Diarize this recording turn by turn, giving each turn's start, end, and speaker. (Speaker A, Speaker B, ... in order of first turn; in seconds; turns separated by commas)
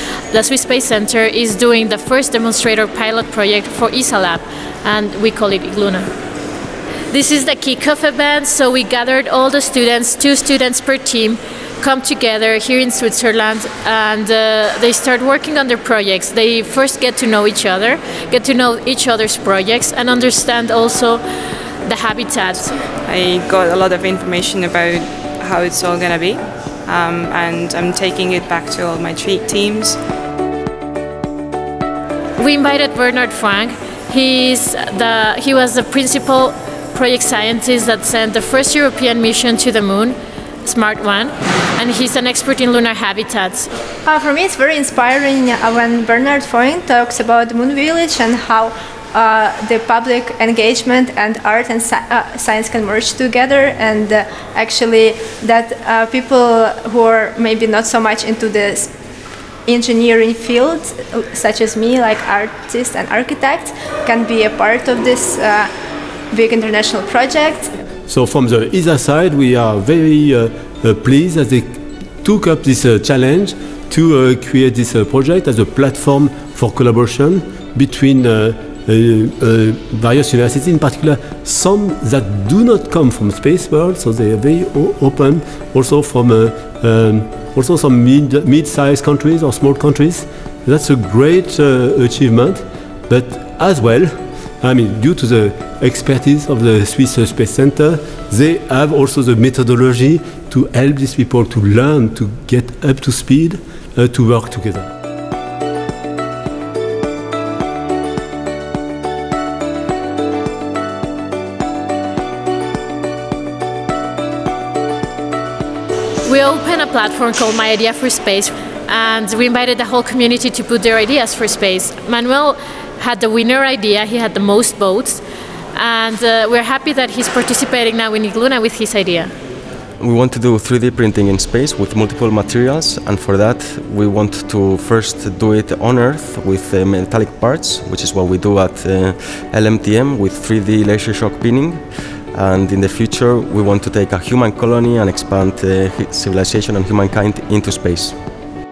Speaker A: 0.3-6.1, Speaker A: 7.1-21.2, Speaker A: 21.8-22.8, Speaker B: 23.0-30.0, Speaker A: 32.4-43.7, Speaker C: 44.0-58.9, Speaker C: 59.7-65.7, Speaker C: 66.3-67.7, Speaker D: 68.1-104.9, Speaker A: 116.2-125.2, Speaker A: 125.7-129.3, Speaker E: 130.0-148.2